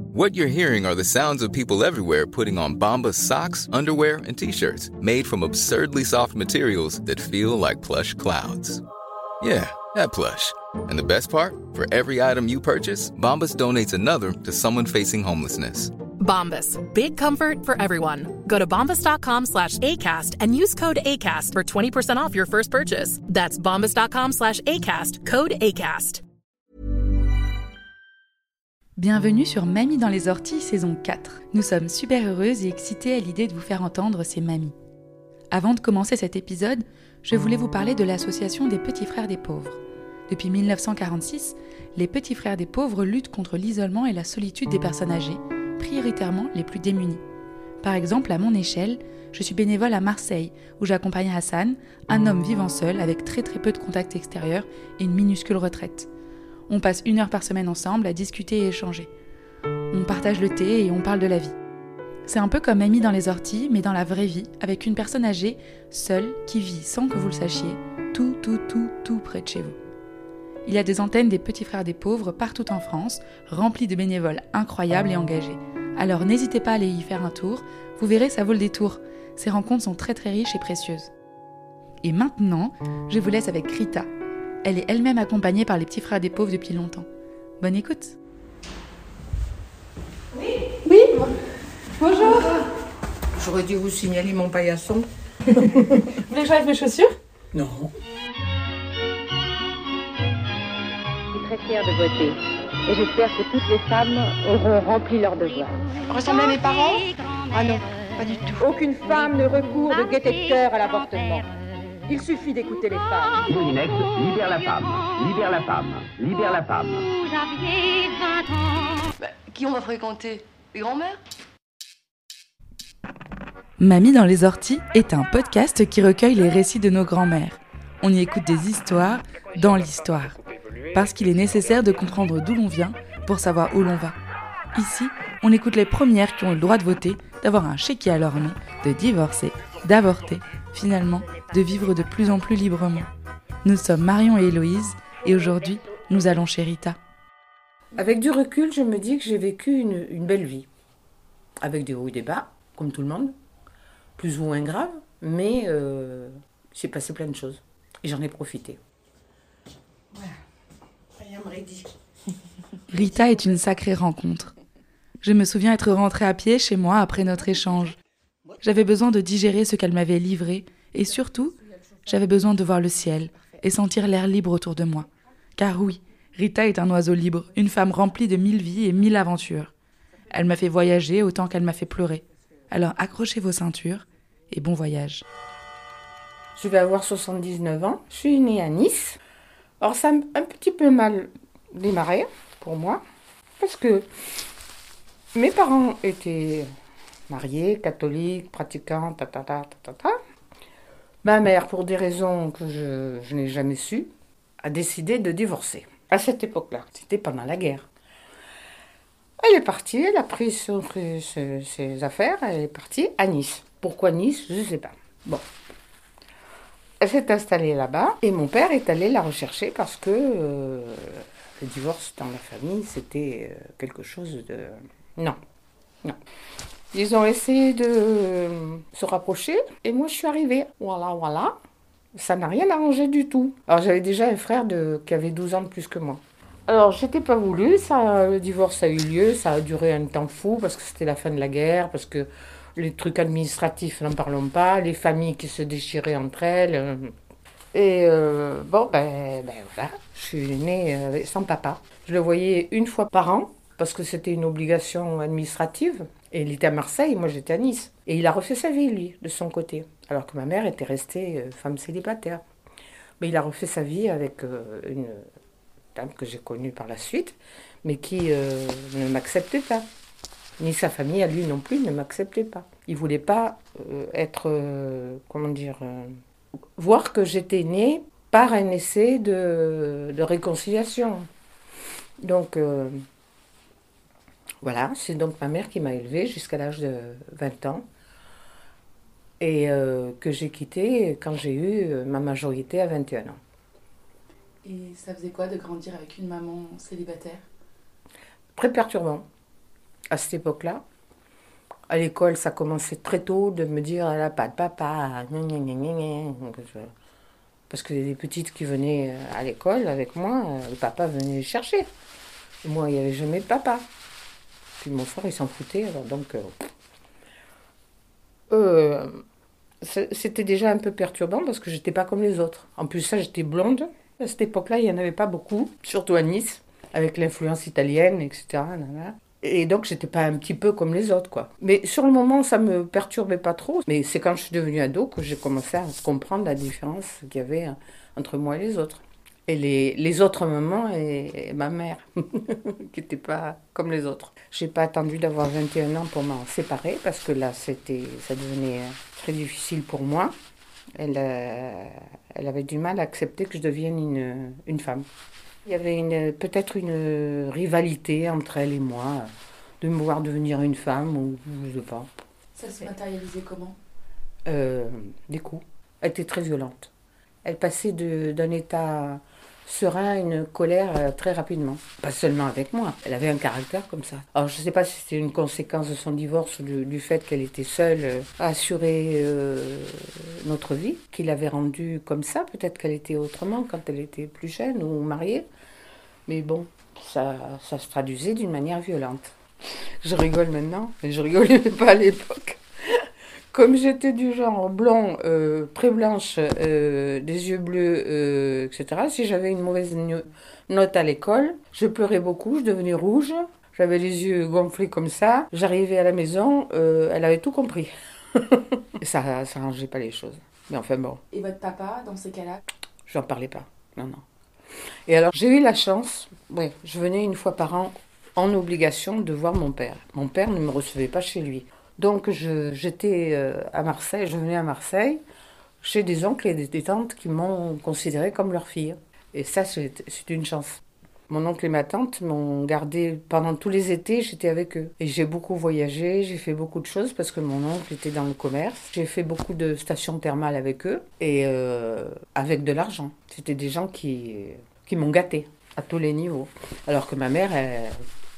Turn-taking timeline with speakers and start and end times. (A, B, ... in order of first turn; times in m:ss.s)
0:00.1-0:08.8 A
0:09.4-0:15.9 A
0:16.2-0:26.2 B
0:29.0-0:34.7 C
0:35.5-0:47.2 C
0:47.8-0:56.1 C
0:56.7-0:59.1 C
0:59.9-1:01.6 C
1:02.2-1:09.8 C
1:10.6-1:21.1 C
1:22.0-1:24.1 C
1:24.6-1:27.1 C
1:27.6-1:28.2 C
1:30.8-1:31.3 C
1:32.0-1:32.6 C
1:33.4-1:35.0 D
1:36.1-1:37.2 C
1:37.5-1:37.9 D
1:41.3-1:47.8 E
1:48.5-1:51.5 E
1:52.0-1:53.5 E
1:53.5-1:57.1 F
1:59.2-2:01.2 G
2:03.8-2:10.4 C
2:10.9-2:14.2 C
2:14.7-2:23.1 C
2:23.6-2:27.0 C
2:27.9-2:30.7 D
2:31.6-2:33.3 D
2:34.2-2:38.8 D
2:41.2-2:41.7 E
2:42.9-2:44.5 C
2:45.2-2:48.0 C
2:48.6-2:59.7 C
3:00.3-3:05.2 C
3:06.6-3:09.2 D
3:09.8-3:13.0 D
3:13.6-3:14.1 D
3:15.3-3:16.7 D
3:17.3-3:20.2 D
3:21.2-3:24.1 D
3:24.6-3:27.9 D
3:29.4-3:35.4 D
3:37.0-3:45.4 D
3:46.9-3:51.6 D
3:52.1-4:07.1 D
4:07.7-4:22.4 D
4:23.2-4:25.2 D
4:25.9-4:29.8 D
4:30.6-4:36.2 D
4:36.8-4:41.3 D
4:42.2-4:43.0 D
4:44.6-4:47.8 D
4:49.4-4:53.4 D
4:54.6-4:57.4 C
4:58.6-4:59.2 D
5:00.1-5:00.8 D
5:01.9-5:06.9 D
5:07.7-5:11.9 D
5:12.6-5:13.8 D
5:14.8-5:16.5 D
5:18.5-5:19.2 D
5:19.8-5:50.3 D
5:51.0-5:55.1 D
5:55.6-5:59.3 D
5:59.8-6:02.1 D
6:02.5-6:03.8 C
6:04.4-6:06.9 D
6:07.4-6:25.4 D
6:26.3-6:51.2 D
6:51.3-6:52.6 C
6:53.1-6:54.2 D
6:55.1-7:05.2 D
7:05.8-7:28.0 D